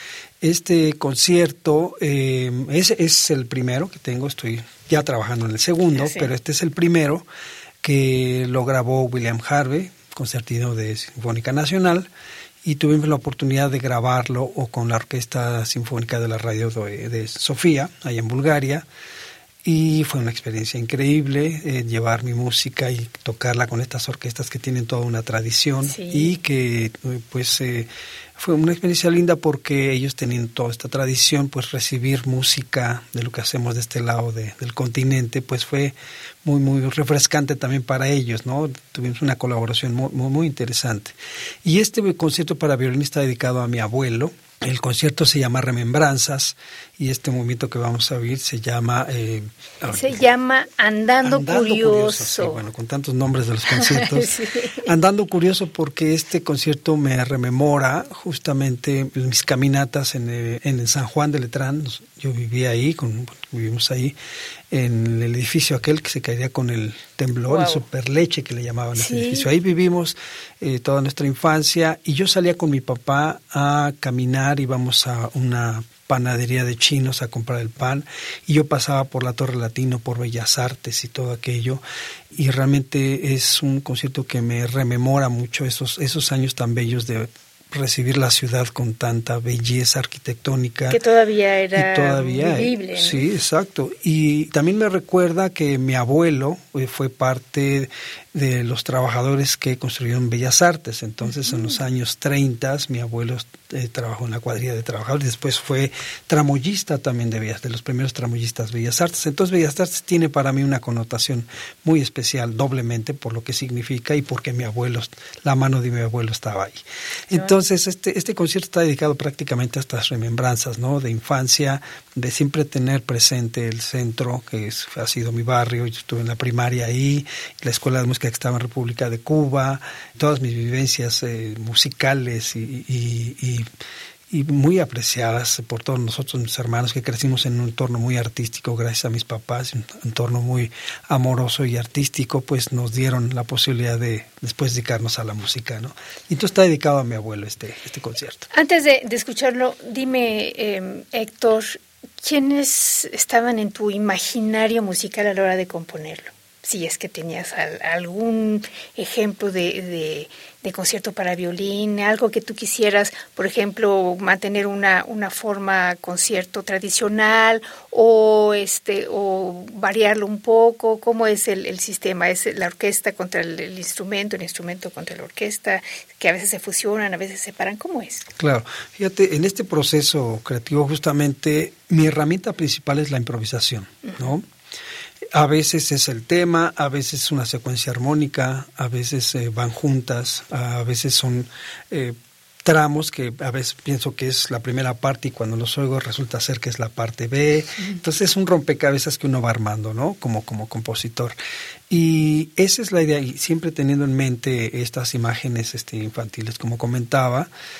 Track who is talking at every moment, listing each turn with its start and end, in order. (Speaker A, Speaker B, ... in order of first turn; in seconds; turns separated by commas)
Speaker A: 0.4-7.3, Speaker B: 6.0-6.3, Speaker A: 7.8-12.1, Speaker A: 12.6-18.9, Speaker A: 19.6-50.2, Speaker B: 25.8-26.3, Speaker B: 49.9-52.6, Speaker A: 51.2-64.2, Speaker B: 53.7-54.9, Speaker A: 64.7-91.0, Speaker B: 67.5-67.8, Speaker B: 69.0-69.5, Speaker B: 90.9-93.3, Speaker A: 91.8-133.7, Speaker A: 134.3-148.5, Speaker B: 148.5-178.3, Speaker A: 178.4-184.5, Speaker A: 185.3-201.3, Speaker A: 201.9-207.5